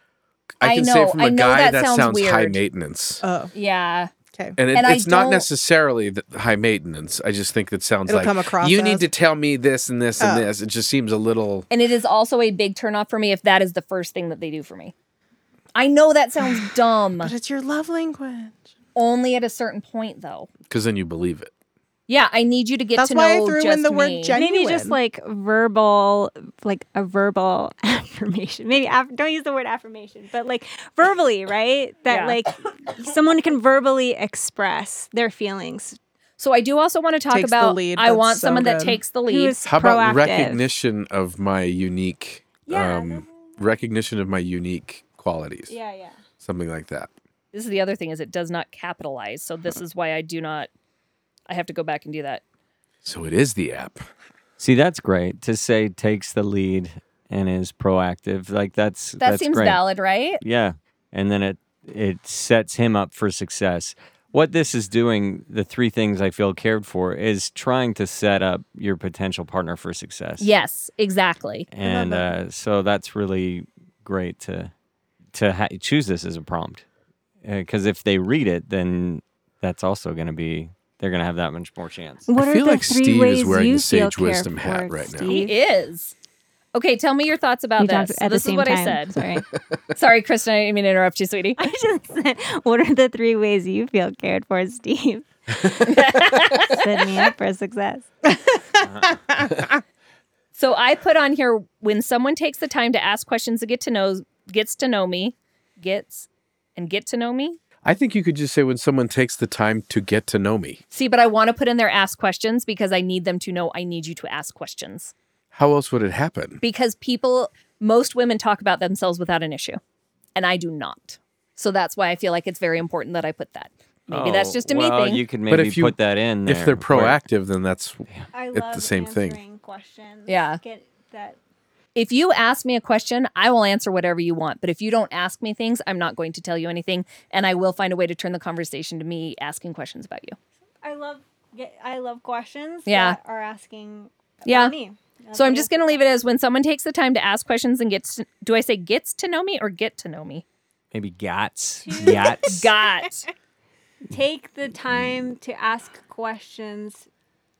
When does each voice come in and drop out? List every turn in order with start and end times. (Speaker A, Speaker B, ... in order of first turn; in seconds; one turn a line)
Speaker A: 0.6-3.2
Speaker B: 0.6-2.6
Speaker C: 3.2-3.5
Speaker B: 3.5-4.1
Speaker A: 4.6-11.7
Speaker B: 4.7-5.5
Speaker C: 8.1-9.0
Speaker C: 10.2-10.5
Speaker B: 11.7-14.9
Speaker B: 15.8-17.3
Speaker C: 17.2-18.6
Speaker B: 19.0-20.5
Speaker A: 20.7-21.5
Speaker B: 22.1-24.4
Speaker C: 23.0-25.0
Speaker D: 24.3-36.0
Speaker B: 32.1-32.4
Speaker B: 36.4-39.6
Speaker C: 37.3-39.0
Speaker D: 39.2-40.7
Speaker A: 39.7-45.8
Speaker D: 42.7-43.6
Speaker D: 45.7-46.2
Speaker A: 46.4-47.1
Speaker B: 47.5-50.7
Speaker B: 51.5-52.4
Speaker A: 53.0-54.0
Speaker E: 54.6-59.8
Speaker B: 59.2-60.4
Speaker E: 60.4-70.5
Speaker B: 70.4-71.7
Speaker E: 71.7-74.7
Speaker C: 71.8-72.3
Speaker E: 75.3-76.8
Speaker E: 77.4-82.3
Speaker D: 82.3-85.6
Speaker A: 82.4-85.3
Speaker B: 85.3-86.1
Speaker B: 86.7-89.2
Speaker D: 87.8-89.5
Speaker B: 90.0-91.6
Speaker D: 91.6-98.1
Speaker B: 95.8-97.3
Speaker E: 98.8-99.2
Speaker B: 100.6-107.6
Speaker A: 107.8-110.8
Speaker B: 110.9-115.1
Speaker A: 115.5-116.6
Speaker B: 116.6-119.8
Speaker B: 120.3-125.2
Speaker E: 124.1-127.2
Speaker A: 125.5-129.4
Speaker D: 128.3-131.4
Speaker B: 130.3-130.6
Speaker B: 131.9-140.4
Speaker D: 140.8-146.0
Speaker B: 142.9-143.2
Speaker B: 144.5-144.7
Speaker B: 145.3-150.4
Speaker E: 150.9-152.7
Speaker D: 151.8-152.4
Speaker B: 152.4-153.3
Speaker D: 154.1-157.1